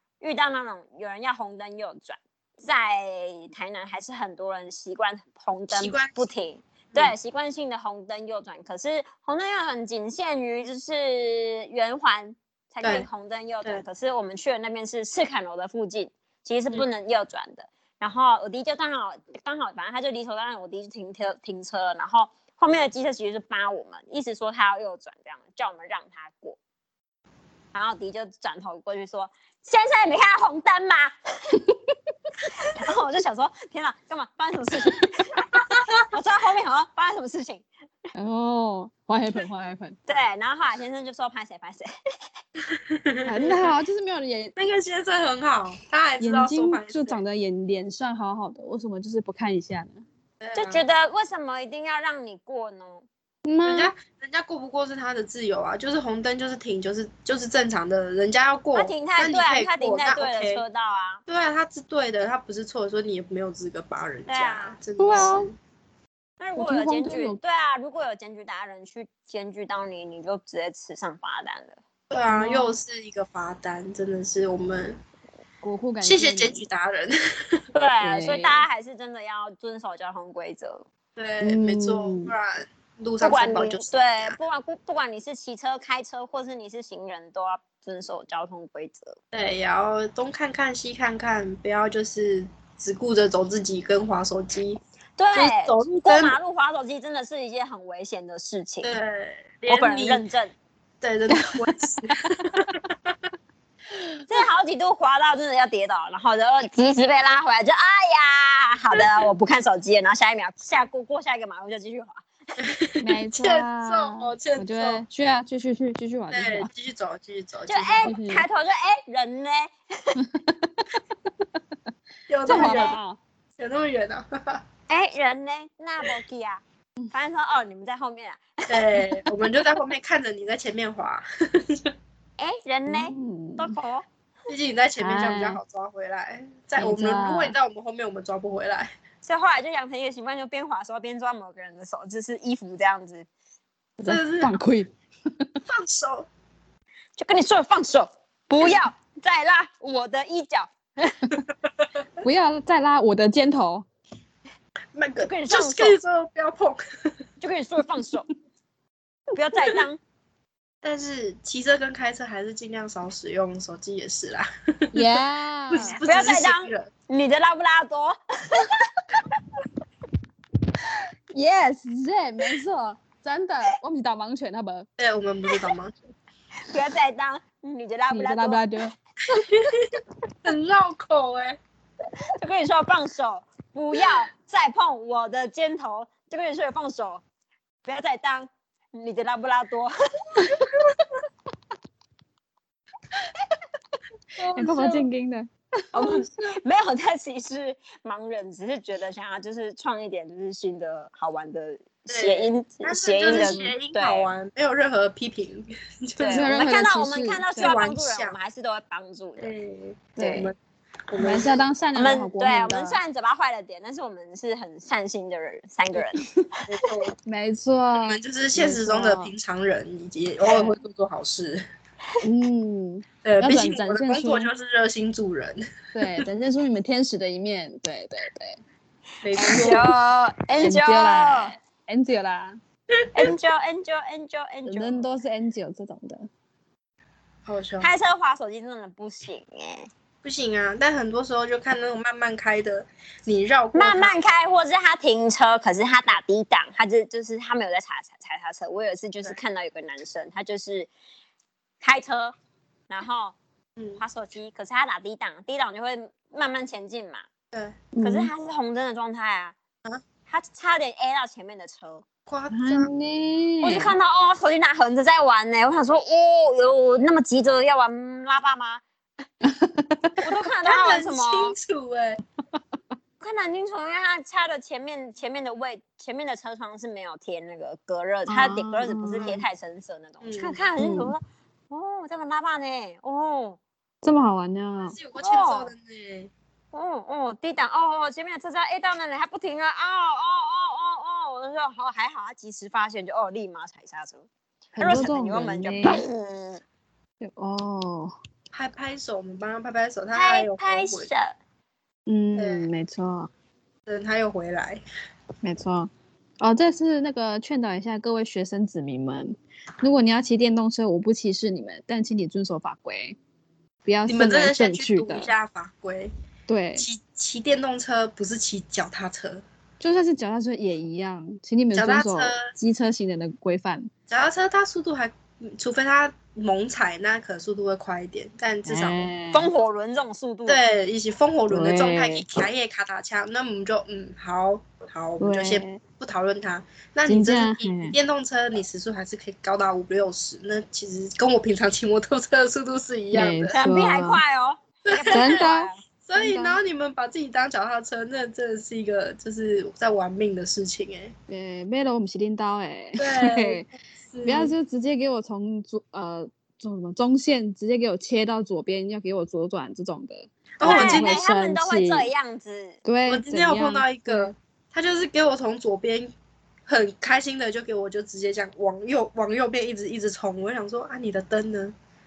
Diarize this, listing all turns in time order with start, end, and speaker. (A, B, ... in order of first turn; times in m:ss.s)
0:00.2-0:26.6 A
0:05.7-0:06.2 B
0:27.7-0:31.6 A
0:32.6-0:37.6 A
0:38.1-0:40.0 C
0:40.1-0:41.9 A
0:42.7-0:43.7 B
0:43.2-0:44.5 C
0:44.6-0:47.2 B
0:46.2-0:50.0 C
0:50.4-0:50.8 B
0:50.5-0:53.0 A
0:53.4-0:53.9 C
0:53.6-1:00.6 B
0:58.7-1:01.2 A
1:01.3-1:05.5 B
1:04.3-1:04.8 A
1:05.0-1:05.5 C
1:06.4-1:11.8 A
1:06.6-1:07.4 C
1:12.1-1:15.0 B
1:12.3-1:12.8 C
1:15.6-1:16.6 C
1:16.0-1:17.6 B
1:17.7-1:20.8 A
1:18.0-1:18.6 C
1:21.2-1:24.4 B
1:21.4-1:22.3 C
1:23.2-1:29.2 A
1:29.3-1:34.8 B
1:35.2-1:39.0 A
1:35.3-1:36.4 B
1:38.8-1:40.2 B
1:39.7-1:40.5 A
1:41.0-1:43.2 B
1:41.3-1:42.5 C
1:44.3-1:52.2 A
1:52.6-1:55.0 B
1:53.0-1:56.7 C
1:56.3-1:58.1 B
1:57.7-2:00.2 A
1:58.0-1:58.4 C
2:00.2-2:00.8 C
2:02.3-2:03.0 B
2:02.4-2:03.2 C
2:02.5-2:03.0 A
2:03.6-2:04.6 B
2:04.9-2:09.2 A
2:08.7-2:11.9 B
2:12.4-2:14.0 A
2:12.9-2:13.7 C
2:14.5-2:18.9 B
2:15.0-2:15.6 C
2:16.8-2:17.5 C
2:19.2-2:23.3 A
2:24.0-2:25.6 C
2:24.0-2:24.6 B
2:25.6-2:26.3 B
2:27.2-2:30.7 A
2:32.2-2:33.8 C
2:34.9-2:36.8 B
2:35.2-2:36.0 A
2:37.4-2:38.3 A
2:39.3-2:40.0 A
2:40.8-2:45.1 B
2:44.9-2:46.0 C
2:45.7-2:46.9 B
2:46.0-2:48.9 A
2:51.3-2:54.8 C
2:55.0-2:56.0 B
2:56.6-2:58.6 A
2:58.1-2:59.4 C
2:59.3-3:01.6 B
3:02.4-3:07.2 A
3:07.8-3:10.5 A
3:14.4-3:15.1 B
3:14.4-3:16.1 C
3:15.9-3:24.3 A
3:22.1-3:26.5 B
3:23.2-3:23.7 C
3:26.2-3:29.5 A
3:26.3-3:27.7 C
3:27.6-3:28.4 B
3:29.4-3:30.5 B
3:30.2-3:30.5 C
3:31.1-3:31.6 B
3:31.2-3:33.0 C
3:31.9-3:36.2 A
3:36.0-3:36.5 C
3:36.7-3:37.1 B
3:37.2-3:39.3 C
3:38.0-3:41.6 B
3:42.2-3:44.5 C
3:43.2-3:46.2 B
3:45.9-3:48.6 C
3:49.2-3:49.9 B
3:49.4-3:51.5 A
3:49.5-3:49.7 C
3:50.6-3:52.6 C
3:52.9-3:53.3 B
3:53.1-3:55.0 A
3:54.6-3:56.3 C
3:57.4-3:57.9 B
3:57.8-3:59.9 A
4:00.2-4:04.1 B
4:03.7-4:10.9 A
4:11.8-4:12.3 A
4:12.9-4:13.4 A
4:13.8-4:14.0 B
4:14.0-4:17.2 A
4:17.5-4:17.8 B
4:17.9-4:18.3 C
4:18.0-4:19.6 A
4:20.3-4:22.0 A
4:22.3-4:22.9 B
4:22.5-4:23.9 C
4:23.6-4:28.8 A
4:29.4-4:30.2 C
4:30.2-4:31.5 A
4:30.6-4:32.2 B
4:33.2-4:43.6 A
4:38.3-4:39.4 C
4:40.2-4:40.6 B
4:40.8-4:41.1 C
4:44.0-4:45.0 C
4:44.8-4:46.3 B
4:45.2-4:45.7 A
4:46.7-4:54.2 A
4:54.8-4:56.0 C
4:54.8-4:56.6 A
4:57.2-4:58.1 C
4:58.5-5:01.1 B
5:00.1-5:01.3 A
5:02.0-5:03.3 C
5:02.4-5:02.7 B
5:03.8-5:04.8 B
5:05.4-5:13.2 C
5:13.8-5:15.3 C
5:14.0-5:16.1 B
5:16.5-5:16.8 C
5:16.8-5:19.4 B
5:19.8-5:23.9 C
5:21.7-5:22.5 B
5:24.1-5:29.1 B
5:28.6-5:29.5 C
5:29.3-5:30.6 A
5:30.4-5:43.6 B
5:31.5-5:32.2 C
5:35.2-5:35.8 C
5:37.0-5:38.0 C
5:43.1-5:44.2 C
5:43.5-5:45.8 A
5:44.8-5:45.5 B
5:45.1-5:46.6 C
5:46.0-5:51.1 B
5:51.3-5:53.7 C
5:53.0-5:54.5 B
5:54.2-6:02.1 C
6:00.6-6:01.2 B
6:00.6-6:02.8 A
6:02.8-6:04.3 C
6:03.1-6:06.1 B
6:06.7-6:11.7 B